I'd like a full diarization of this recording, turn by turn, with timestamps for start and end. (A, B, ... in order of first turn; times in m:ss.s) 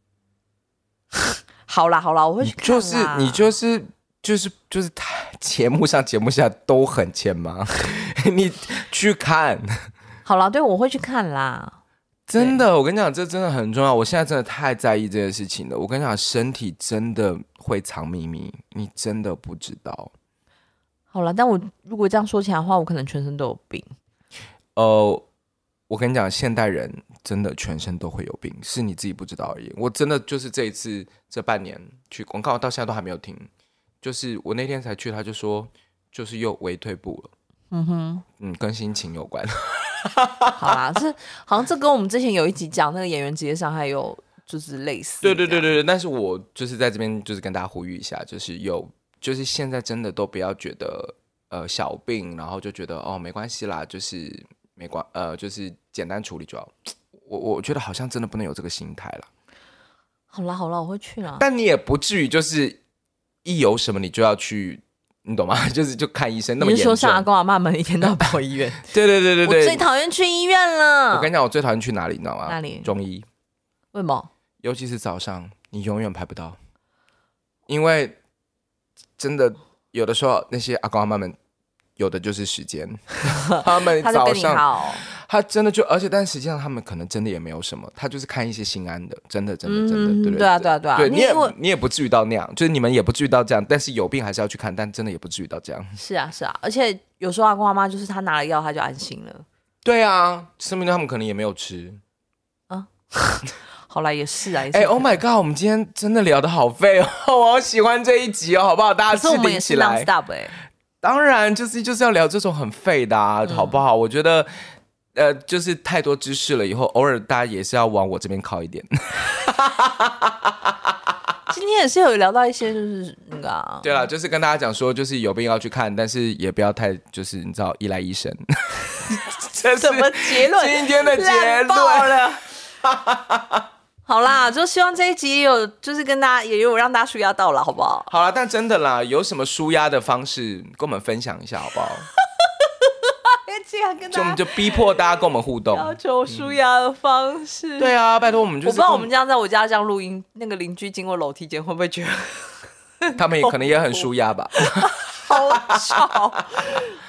0:01.2-0:03.4 A
0:02.4-0:09.7 B
0:10.2-0:11.8 A
0:12.3-0:20.1 B
0:12.4-0:12.6 A
0:21.1-0:23.9 A
0:24.8-0:25.2 B
0:25.9-0:33.5 B
0:34.0-0:37.3 B
0:37.7-0:38.2 A
0:38.4-0:40.7 B
0:40.6-0:45.7 A
0:45.2-0:59.3 B
1:00.3-1:01.4 A
1:01.4-1:02.8 B
1:03.4-1:07.3 B
1:06.6-1:11.3 A
1:08.8-1:09.8 B
1:11.1-1:13.3 B
1:12.5-1:12.9 A
1:13.9-1:14.3 A
1:14.6-1:16.6 B
1:17.7-1:18.2 B
1:19.2-1:21.4 B
1:22.0-1:36.0 B
1:23.3-1:25.0 A
1:29.6-1:31.5 A
1:36.0-1:39.5 A
1:39.8-1:42.0 B
1:42.7-1:45.2 A
1:44.7-1:50.1 B
1:49.1-1:50.6 A
1:51.0-1:54.5 B
1:53.5-1:53.8 A
1:55.1-2:01.0 B
2:01.5-2:04.0 A
2:03.8-2:12.2 B
2:09.8-2:12.4 A
2:12.8-2:13.7 B
2:14.1-2:18.1 A
2:18.1-2:22.1 B
2:22.4-2:27.9 A
2:24.1-2:26.6 B
2:27.8-2:29.1 B
2:28.6-2:33.6 A
2:33.2-2:36.8 B
2:34.6-2:36.9 A